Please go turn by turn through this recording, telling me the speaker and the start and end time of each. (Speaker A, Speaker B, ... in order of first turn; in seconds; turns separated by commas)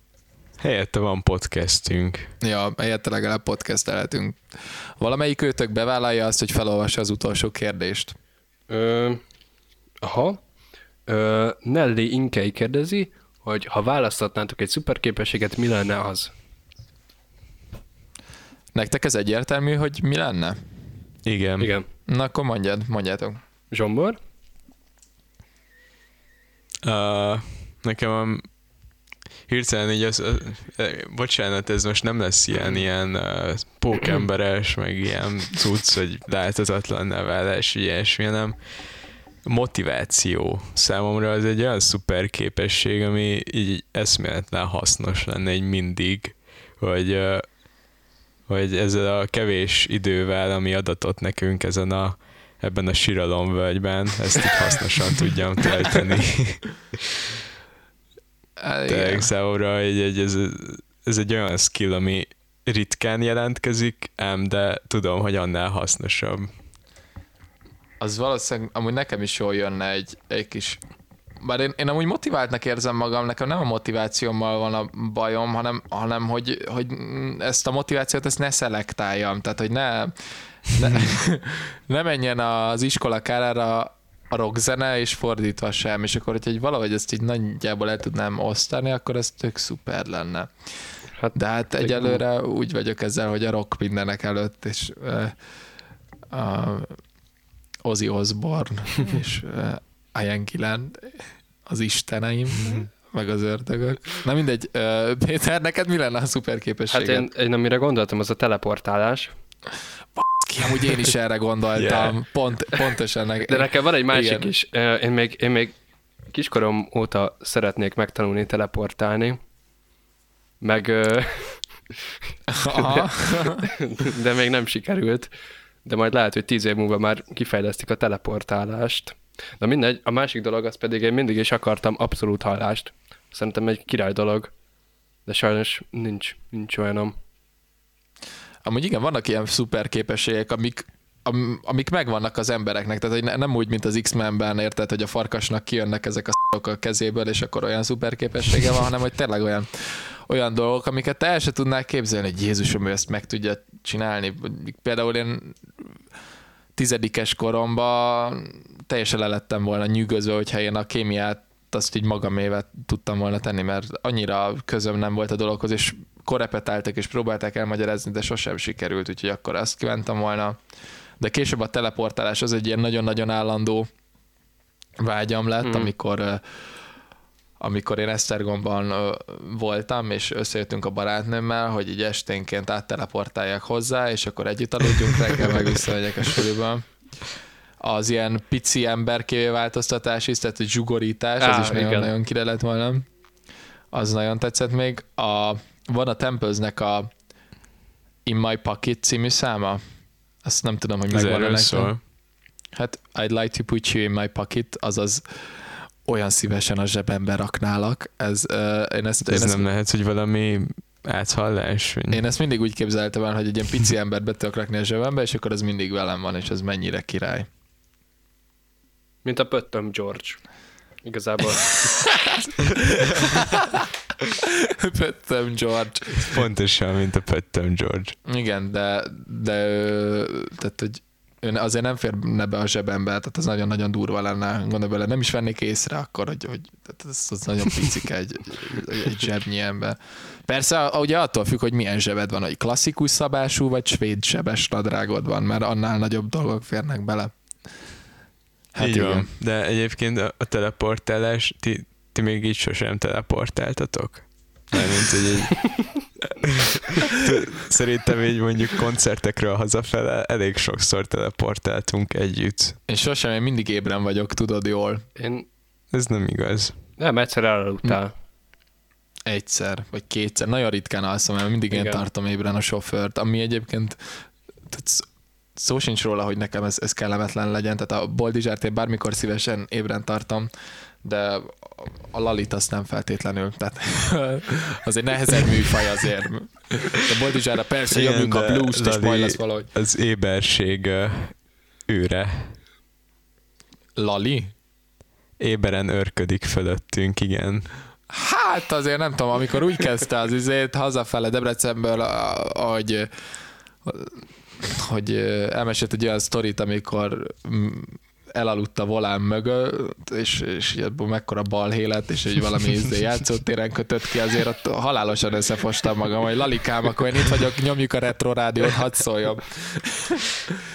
Speaker A: 0.6-2.3, Speaker B: 2.4-8.1, Speaker C: 8.7-9.2, Speaker C: 10.0-10.4, Speaker C: 11.1-16.3, Speaker B: 18.7-20.7, Speaker A: 21.2-21.7, Speaker C: 21.6-21.9, Speaker B: 22.1-23.4, Speaker C: 23.7-24.2, Speaker A: 26.8-28.5, Speaker A: 29.4-47.6, Speaker A: 48.5-56.9, Speaker B: 58.6-59.3, Speaker A: 58.9-66.5, Speaker B: 68.0-70.8, Speaker B: 71.4-95.3, Speaker C: 91.2-92.2, Speaker B: 96.3-97.0, Speaker B: 97.8-107.3, Speaker C: 106.9-109.3, Speaker B: 110.1-114.5, Speaker A: 111.8-112.2, Speaker C: 113.5-115.8, Speaker C: 116.3-119.4, Speaker C: 120.6-121.9, Speaker B: 122.5-123.6, Speaker C: 122.7-125.3, Speaker C: 125.8-134.5, Speaker C: 135.2-137.1, Speaker B: 138.6-155.6, Speaker B: 156.8-173.9, Speaker B: 175.0-176.7, Speaker C: 175.6-175.9, Speaker B: 177.6-186.9, Speaker B: 187.8-193.1, Speaker C: 191.4-192.1, Speaker B: 193.9-197.1, Speaker B: 198.2-199.8, Speaker B: 200.4-202.1, Speaker A: 201.1-202.0, Speaker B: 202.7-209.7, Speaker A: 209.2-212.2, Speaker B: 212.1-217.5, Speaker C: 219.2-220.4, Speaker C: 221.0-222.2, Speaker B: 223.5-223.8, Speaker B: 224.4-226.4, Speaker A: 226.2-228.2, Speaker B: 228.2-247.3, Speaker B: 248.7-249.3, Speaker A: 248.8-256.0, Speaker A: 256.8-262.8, Speaker B: 262.9-265.0, Speaker C: 265.2-265.5, Speaker A: 265.9-266.8, Speaker C: 267.0-268.1, Speaker B: 269.2-280.5, Speaker C: 271.7-272.0, Speaker B: 281.0-289.7, Speaker A: 287.9-292.6, Speaker B: 293.9-294.5, Speaker A: 295.4-297.7, Speaker B: 298.1-303.1, Speaker B: 303.8-320.6